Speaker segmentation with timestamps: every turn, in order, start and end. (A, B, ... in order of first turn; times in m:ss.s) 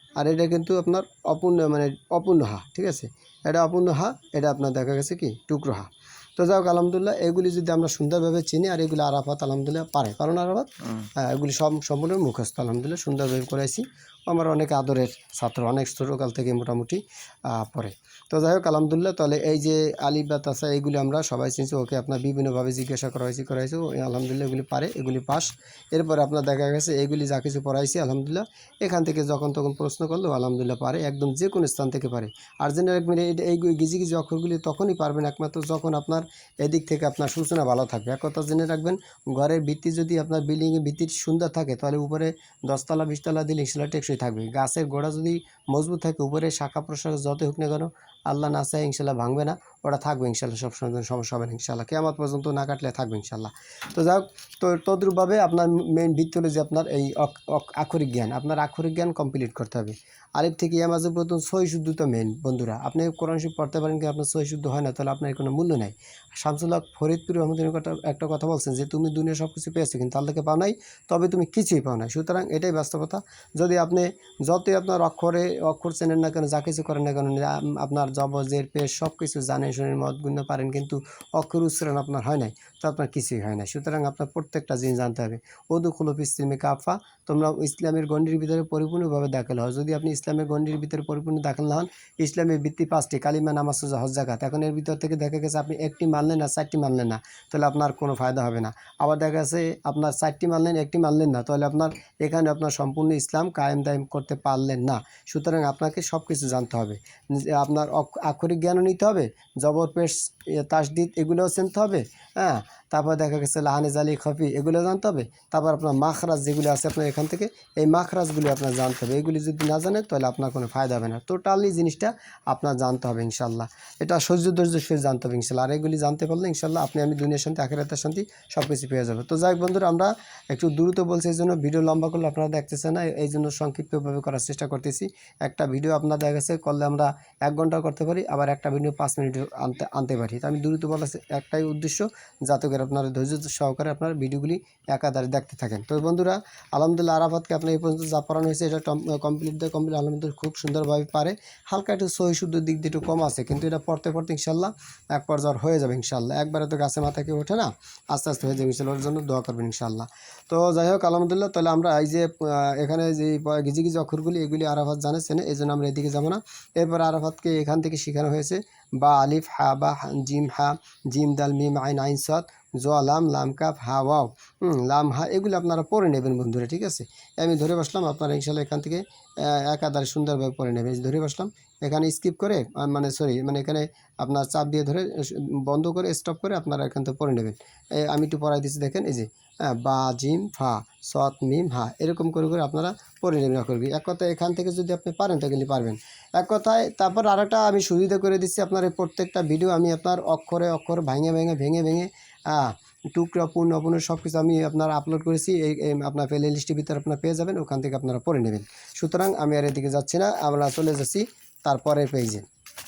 0:00.2-3:32.4 A